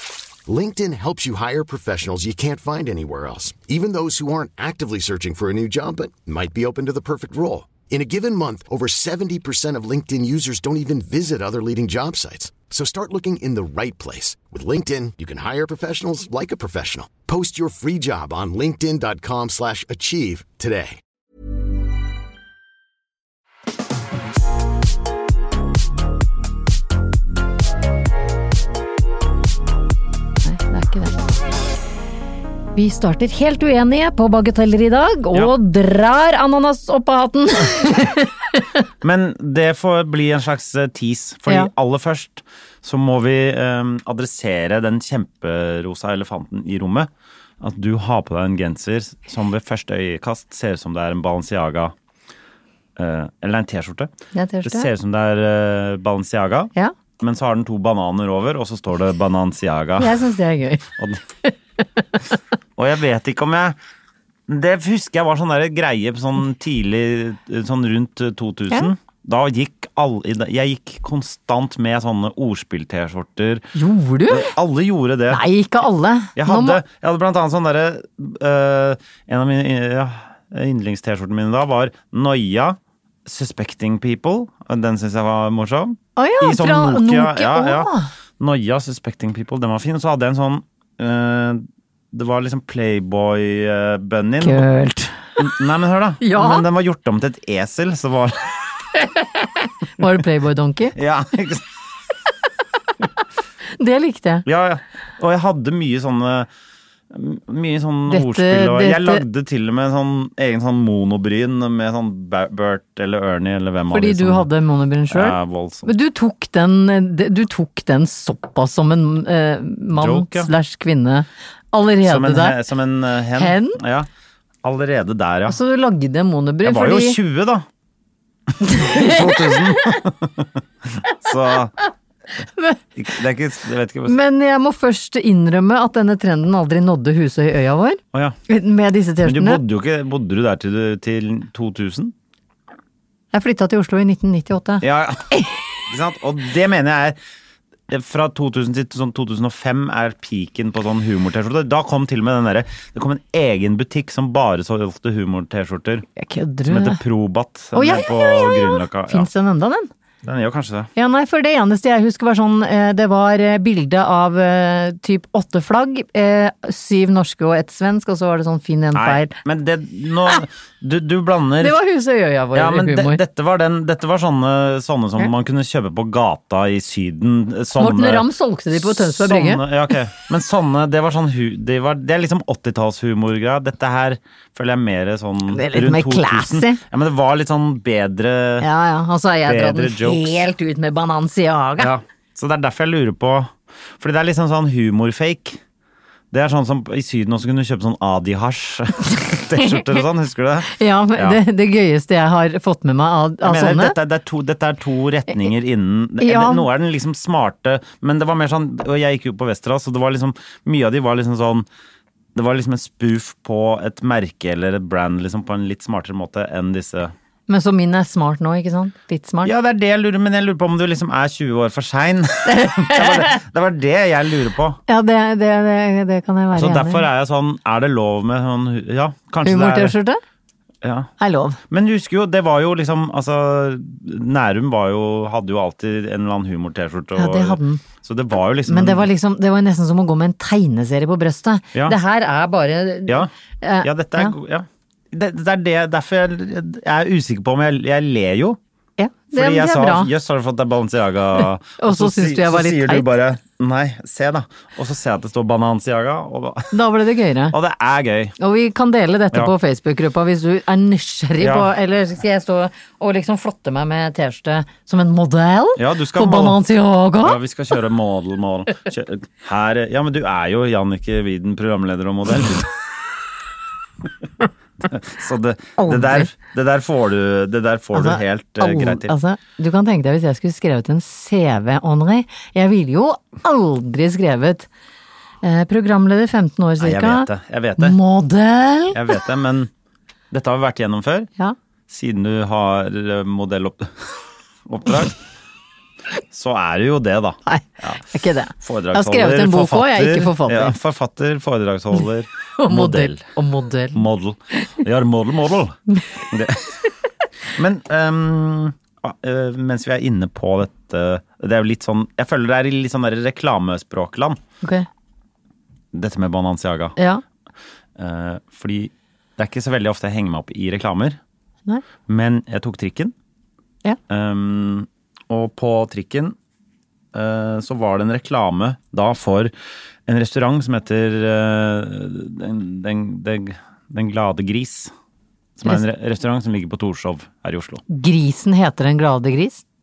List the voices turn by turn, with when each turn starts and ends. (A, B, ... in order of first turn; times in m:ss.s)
0:00.4-0:21.0 A
0:30.4-0:31.2 B
0:32.8-0:38.6 B
0:39.0-0:47.1 C
0:47.6-0:51.9 C
0:53.0-0:54.1 C
0:54.3-0:54.9 B
0:54.6-1:00.2 C
1:00.0-1:00.9 B
1:02.8-1:03.8 C
1:04.5-1:13.7 C
1:13.7-1:14.5 B
1:14.3-1:15.4 C
1:15.3-1:16.8 B
1:16.4-1:34.6 C
1:26.2-1:28.1 B
1:34.4-1:35.2 B
1:35.4-1:38.7 C
1:36.2-1:36.6 B
1:39.0-1:41.0 B
1:40.9-1:41.6 C
1:43.8-1:44.4 B
1:44.4-1:46.5 C
1:47.1-1:54.5 C
1:48.1-1:49.2 B
1:53.9-2:02.6 B
1:55.1-1:55.9 C
2:00.0-2:00.5 C
2:02.0-2:04.1 C
2:03.3-2:03.8 B
2:04.6-2:05.6 C
2:05.5-2:07.2 B
2:06.6-2:07.6 C
2:08.6-2:10.0 B
2:08.6-2:11.7 C
2:12.5-2:12.8 B
2:13.0-2:14.2 C
2:14.1-2:19.6 B
2:19.2-2:22.1 C
2:23.3-2:25.5 B
2:24.8-2:25.3 C
2:25.9-2:27.2 C
2:27.9-2:36.0 C
2:36.2-2:37.0 B
2:36.7-2:39.3 C
2:37.7-2:39.9 B
2:40.2-2:40.9 C
2:41.0-2:49.3 B
2:48.9-2:51.8 C
2:51.6-2:53.2 B
2:52.5-3:08.7 C
2:57.8-2:59.6 B
3:05.5-3:06.8 B
3:08.6-3:11.9 B
3:09.4-3:10.3 C
3:11.8-3:15.6 C
3:16.3-3:21.4 C
3:19.5-3:20.0 B
3:20.7-3:24.0 B
3:23.4-3:31.6 C
3:26.2-3:26.7 B
3:32.3-3:37.1 C
3:37.5-3:39.5 B
3:39.4-3:44.8 C
3:42.4-3:43.4 B
3:44.9-3:47.0 B
3:46.5-3:50.0 C
3:49.4-3:50.2 B
3:50.8-3:51.1 C
3:51.2-3:51.6 B
3:51.7-3:59.1 C
3:57.2-3:57.8 B
3:58.7-4:04.3 B
4:03.8-4:08.6 C
4:09.0-4:10.1 B
4:09.3-4:16.7 C
4:11.8-4:13.1 B
4:16.7-4:17.5 B
4:17.5-4:18.4 C
4:18.4-4:27.4 B
4:21.4-4:21.7 C
4:25.8-4:26.6 C
4:27.2-4:32.7 C
4:34.8-4:39.1 C
4:35.8-4:36.3 B
4:37.9-4:44.7 B
4:45.4-4:49.2 B
4:46.8-4:48.0 C
4:48.9-4:49.7 C
4:50.3-4:51.3 C
4:51.9-4:55.1 C
4:56.3-4:58.0 C
4:57.4-5:00.8 B
4:58.6-5:03.2 C
5:02.6-5:04.0 B
5:03.9-5:05.8 C
5:06.3-5:06.8 C
5:07.5-5:14.4 C
5:14.6-5:14.9 B
5:15.9-5:16.9 C
5:17.0-5:17.2 B
5:18.0-5:21.2 C
5:22.1-5:23.1 C
5:24.1-5:26.4 C
5:27.1-5:29.5 C
5:30.1-5:34.9 C
5:35.6-5:37.8 C
5:37.9-5:39.6 B